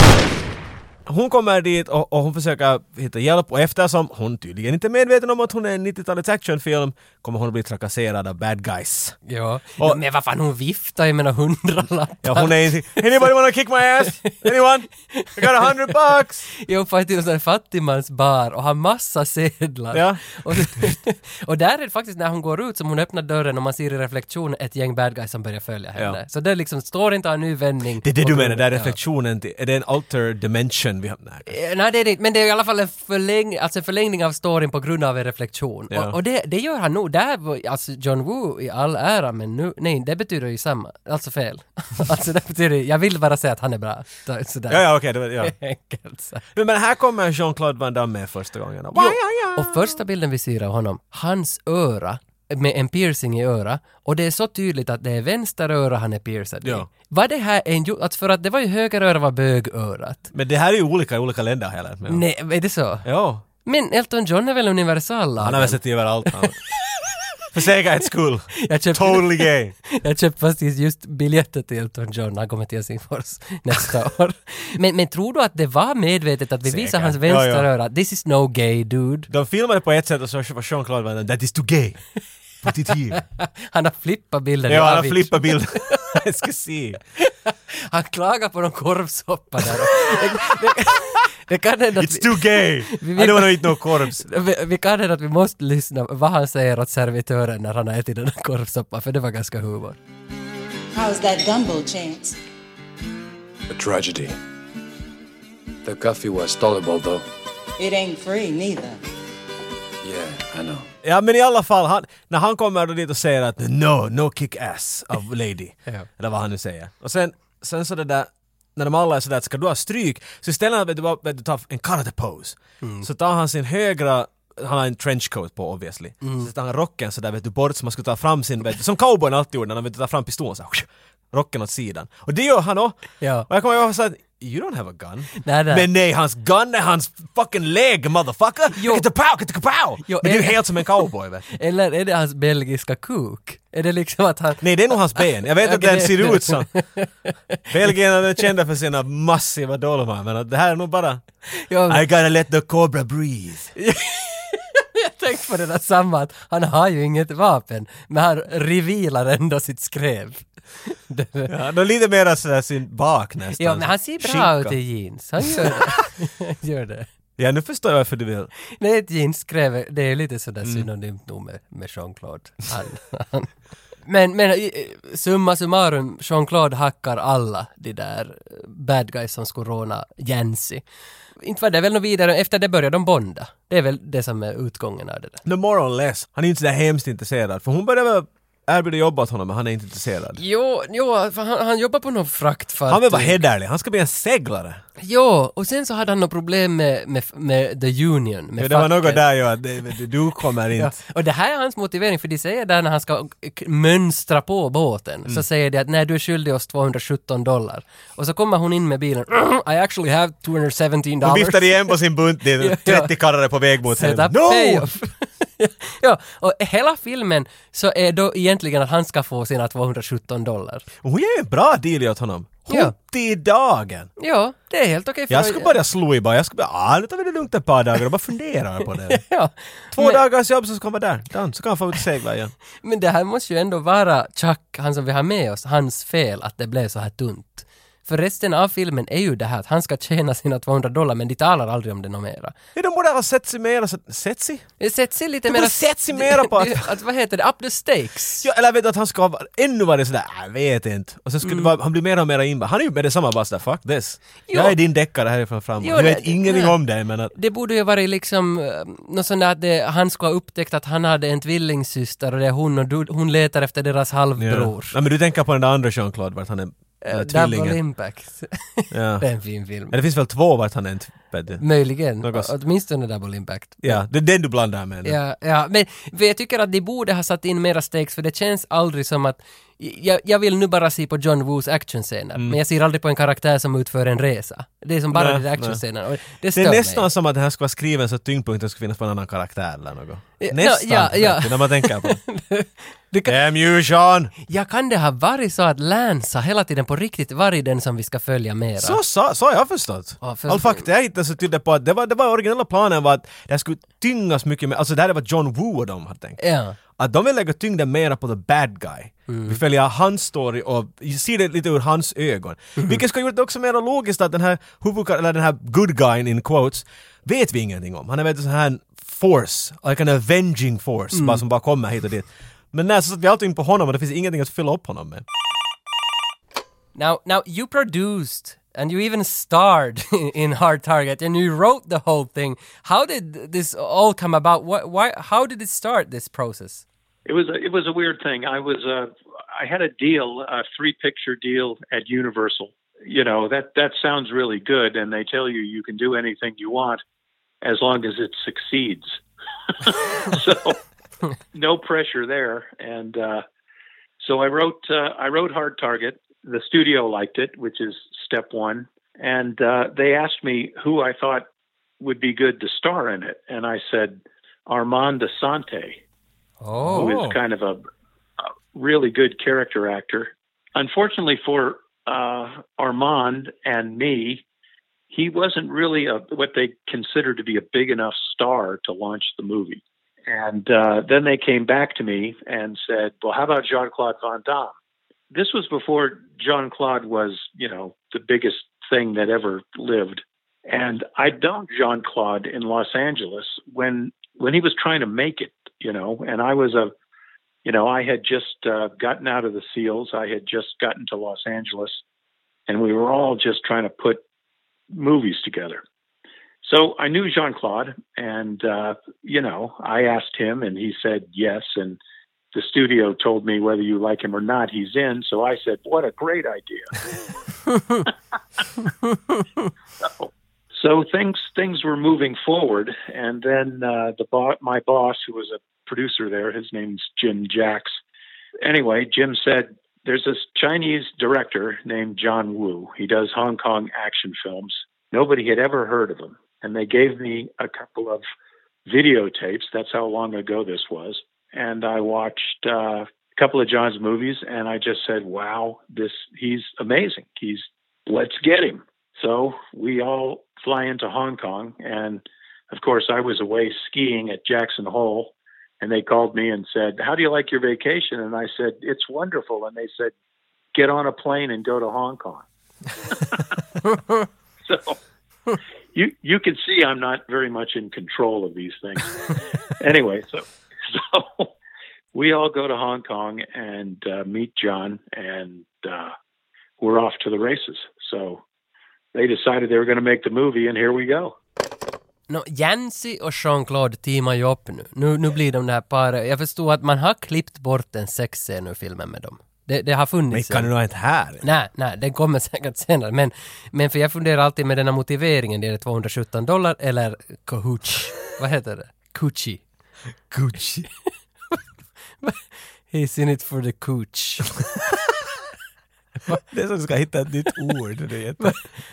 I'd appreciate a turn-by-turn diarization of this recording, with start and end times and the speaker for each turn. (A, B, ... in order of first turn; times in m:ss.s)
0:01.0-0:09.2 A
0:09.3-0:13.0 B
0:12.2-0:16.4 A
0:15.1-0:15.9 B
0:16.6-0:29.0 B
0:19.9-0:20.8 A
0:28.0-0:31.5 A
0:31.5-0:46.4 B
0:35.9-0:36.2 A
0:44.7-0:45.5 A
0:46.5-0:50.0 A
0:48.9-1:00.3 B
1:00.3-1:02.2 A
1:02.1-1:03.0 B
1:03.0-1:03.4 A
1:03.6-1:06.5 B
1:05.4-1:06.6 A
1:07.5-1:09.7 A
1:08.6-1:19.3 B
1:16.6-1:17.7 A
1:19.3-1:22.0 A
1:22.6-1:23.2 A
1:23.2-1:26.0 B
1:24.7-1:27.0 A
1:27.2-1:40.0 B
1:29.7-1:30.3 A
1:32.0-1:34.3 A
1:40.9-1:42.4 C
1:43.7-1:44.4 D
1:45.8-1:47.2 D
1:47.8-1:49.0 C
1:50.0-1:50.9 D
1:51.0-2:21.5 A
2:02.8-2:03.1 B
2:06.2-2:06.5 B
2:13.2-2:13.5 B
2:15.4-2:15.9 B
2:18.7-2:19.0 B
2:20.0-2:27.6 B
2:24.6-2:26.7 A
2:27.7-2:31.2 A
2:31.5-2:32.0 B
2:31.9-2:33.7 A
2:33.8-2:41.5 B
2:41.5-2:44.8 A
2:43.6-2:47.1 B
2:45.5-2:46.0 A
2:47.4-2:48.5 A
2:48.7-2:53.5 B
2:54.0-3:00.8 B
3:01.4-3:05.4 B
3:05.4-3:10.4 A
3:10.4-3:13.4 B
3:12.9-3:14.8 A
3:15.0-3:19.2 B
3:18.6-3:20.9 A
3:20.8-3:32.0 B
3:31.2-3:34.9 A
3:32.6-3:33.1 B
3:33.9-3:40.8 B
3:41.0-3:44.1 A
3:42.7-3:42.9 B
3:44.2-3:45.8 B
3:45.3-3:49.2 A
3:49.1-3:50.2 B
3:49.9-3:52.5 A
3:52.8-4:02.5 B
4:02.7-4:04.7 A
4:04.8-4:08.5 B
4:05.5-4:06.9 A
4:08.4-4:17.3 A
4:11.4-4:11.7 B
4:14.5-4:14.7 B
4:15.8-4:16.8 B
4:17.3-4:25.0 B
4:24.4-4:27.8 A
4:27.0-4:29.9 B
4:28.9-4:29.3 A
4:29.9-4:32.5 A
4:31.6-4:34.0 B
4:33.8-4:35.2 A
4:35.0-4:47.0 B
4:45.1-4:45.8 A
4:46.5-4:52.2 A
4:50.4-4:53.3 B
4:53.3-4:54.3 A
4:54.5-4:59.0 B
4:58.8-5:06.4 A
5:00.2-5:00.8 B
5:06.4-5:06.8 B
5:07.0-5:25.2 A
5:09.3-5:09.6 B
5:21.1-5:21.4 B
5:26.9-5:36.8 B
5:37.2-5:47.0 E
5:47.6-5:49.2 E
5:49.8-5:50.8 E
5:51.5-5:53.4 E
5:54.2-6:01.4 E
6:02.0-6:06.0 E
6:06.6-6:07.1 B
6:06.8-6:07.4 A
6:06.9-6:07.8 E
6:08.7-6:14.4 E
6:15.1-6:24.7 E
6:25.3-6:36.9 E
6:37.6-6:42.0 E
6:42.7-6:44.2 E
6:44.9-6:45.8 E
6:46.6-6:52.0 E
6:52.5-6:56.9 E
7:00.0-7:08.0 E
7:08.6-7:18.2 E
7:18.8-7:40.1 E
7:40.7-7:42.4 E
7:44.7-7:45.0 E
7:45.9-7:51.5 E
7:52.1-7:56.1 E
7:56.8-7:58.4 E
7:59.1-8:01.3 E
8:02.3-8:10.7 B
8:10.3-8:11.4 A
8:11.4-8:19.6 B
8:20.3-8:20.9 A
8:22.2-8:24.6 B
8:26.4-8:28.6 A
8:28.4-8:28.7 B